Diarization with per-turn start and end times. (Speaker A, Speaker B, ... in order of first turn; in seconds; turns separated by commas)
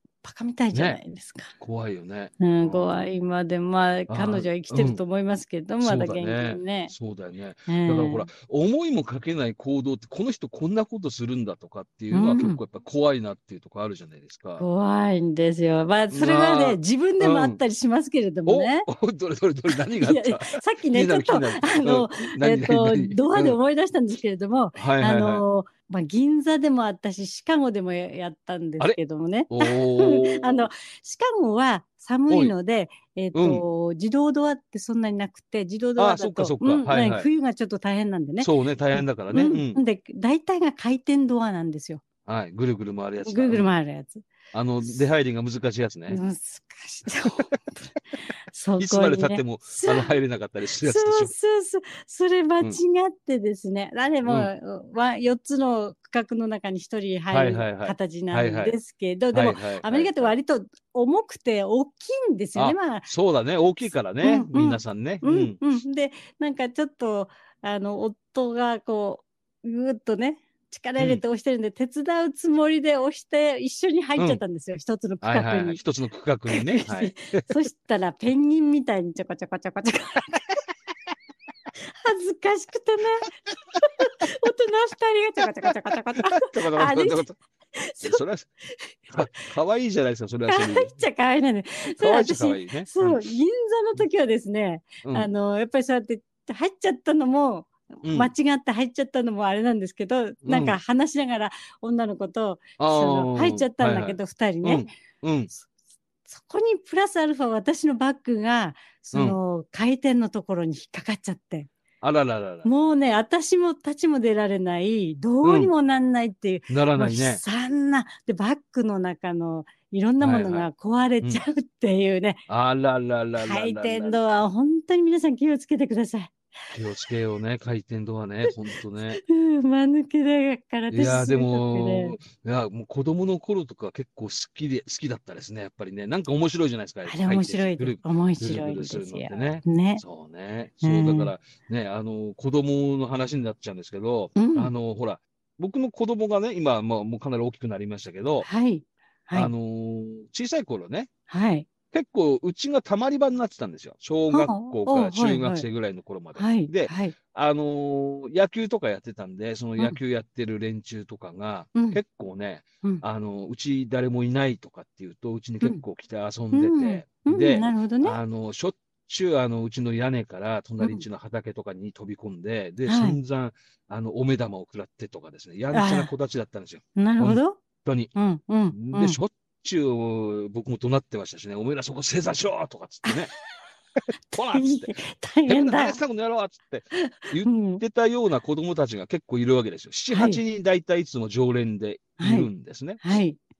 Speaker A: 0.2-1.5, Speaker B: 0.7-1.0, Speaker B: 1.6-2.9, Speaker A: 2.4-6.9, Speaker B: 4.1-5.0, Speaker B: 5.8-14.6, Speaker A: 7.7-8.3, Speaker A: 12.1-12.6, Speaker A: 14.6-18.9, Speaker B: 16.1-17.6, Speaker B: 18.5-23.6, Speaker A: 20.0-42.0, Speaker B: 24.7-25.4, Speaker B: 29.5-30.7, Speaker B: 33.3-33.6, Speaker B: 36.0-37.3, Speaker B: 38.4-39.8, Speaker B: 42.2-43.7, Speaker A: 43.2-44.3, Speaker B: 44.5-46.2, Speaker A: 46.1-47.9, Speaker A: 48.5-50.1, Speaker B: 48.8-51.3, Speaker A: 50.8-63.1, Speaker B: 54.2-54.5, Speaker B: 57.3-58.8, Speaker B: 59.3-60.4, Speaker B: 62.5-65.6, Speaker A: 64.2-75.8, Speaker B: 74.2-74.4, Speaker B: 75.2-77.5, Speaker A: 76.5-80.5, Speaker A: 81.8-89.0, Speaker B: 86.2-87.3, Speaker B: 88.0-88.5, Speaker B: 89.1-91.0, Speaker A: 90.5-104.9, Speaker B: 92.0-93.3, Speaker B: 95.0-95.3, Speaker B: 98.0-98.3, Speaker B: 100.4-100.8, Speaker B: 102.8-105.5, Speaker A: 106.3-111.7, Speaker B: 109.1-109.4, Speaker B: 112.0-112.7, Speaker A: 112.6-122.4, Speaker B: 115.4-115.7, Speaker B: 116.7-117.4, Speaker B: 120.2-120.7, Speaker B: 122.5-124.4, Speaker A: 123.4-126.3, Speaker B: 126.7-129.2, Speaker A: 129.2-132.2, Speaker B: 130.9-148.5, Speaker A: 137.0-140.0, Speaker A: 140.8-141.3, Speaker A: 144.3-144.7, Speaker A: 148.4-149.5, Speaker B: 149.3-151.1, Speaker A: 151.3-151.7, Speaker B: 151.9-178.1, Speaker A: 154.3-155.6, Speaker A: 156.3-157.1, Speaker A: 161.7-162.0, Speaker A: 166.5-168.2, Speaker A: 170.8-171.0, Speaker A: 172.8-173.2, Speaker A: 175.7-176.1, Speaker A: 176.9-177.6, Speaker A: 178.1-179.2, Speaker B: 178.7-183.3, Speaker A: 184.3-186.0, Speaker B: 184.3-193.0, Speaker A: 187.0-187.8, Speaker A: 190.1-190.4, Speaker A: 192.2-193.4